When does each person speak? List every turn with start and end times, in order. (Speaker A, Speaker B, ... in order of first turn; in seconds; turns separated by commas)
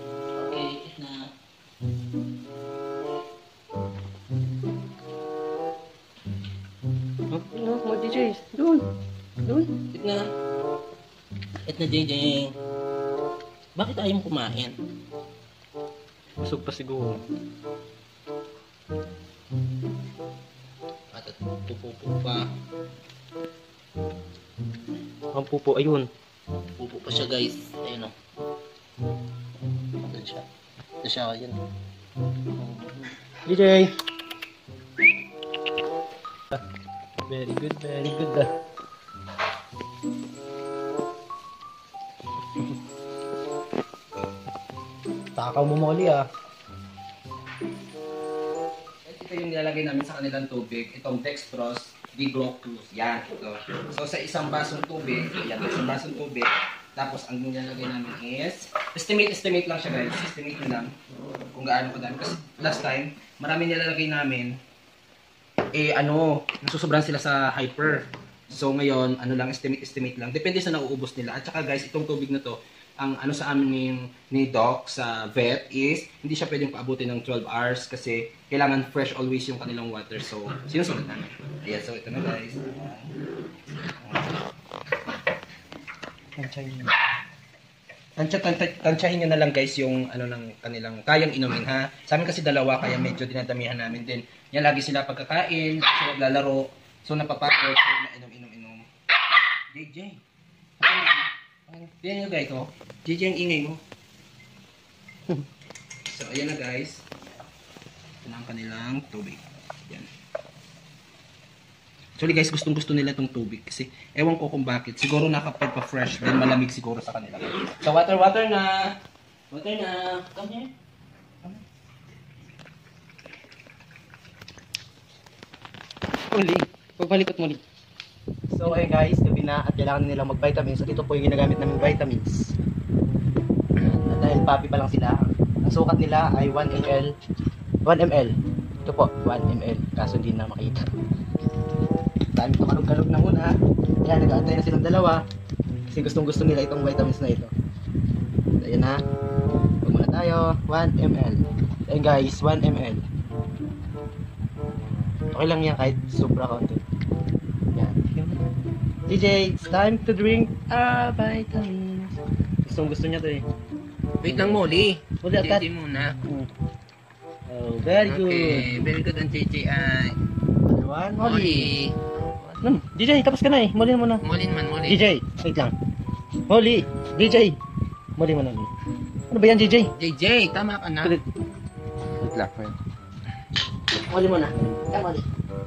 Speaker A: 0.4-1.3, Speaker B: 7.3-8.8, Speaker B: 9.4-9.7, Speaker A: 9.8-10.2, Speaker A: 11.7-12.5, Speaker A: 13.8-14.8, Speaker B: 16.4-17.2, Speaker A: 21.1-22.4, Speaker B: 25.3-26.1, Speaker A: 26.8-28.1, Speaker A: 30.0-30.4, Speaker A: 31.0-31.6, Speaker A: 32.6-33.1, Speaker B: 33.5-33.9, Speaker B: 37.3-38.5, Speaker B: 45.4-46.2, Speaker A: 49.0-60.9, Speaker A: 61.5-64.6, Speaker A: 65.7-83.1, Speaker A: 84.0-84.4, Speaker B: 86.4-86.9, Speaker A: 88.2-98.9, Speaker A: 99.7-100.2, Speaker A: 100.8-103.8, Speaker A: 106.0-107.1, Speaker A: 108.2-110.1, Speaker A: 112.2-118.9, Speaker A: 119.5-120.7, Speaker B: 126.3-127.6, Speaker B: 128.5-132.5, Speaker B: 133.8-137.1, Speaker B: 137.8-140.9, Speaker B: 142.3-145.2, Speaker B: 145.9-147.5, Speaker B: 148.6-149.0, Speaker B: 149.8-153.1, Speaker B: 155.3-156.8, Speaker B: 157.7-158.4, Speaker B: 159.1-163.4, Speaker A: 164.2-166.2, Speaker B: 164.3-164.6, Speaker B: 165.2-165.7, Speaker B: 167.5-168.7, Speaker A: 168.0-170.1, Speaker B: 170.7-171.7, Speaker A: 171.2-172.7, Speaker B: 172.6-174.2, Speaker A: 174.2-175.0, Speaker B: 174.8-175.7, Speaker B: 176.5-177.6, Speaker B: 178.2-178.7, Speaker B: 179.3-179.9, Speaker A: 179.9-181.2, Speaker B: 182.2-182.8, Speaker B: 183.9-185.2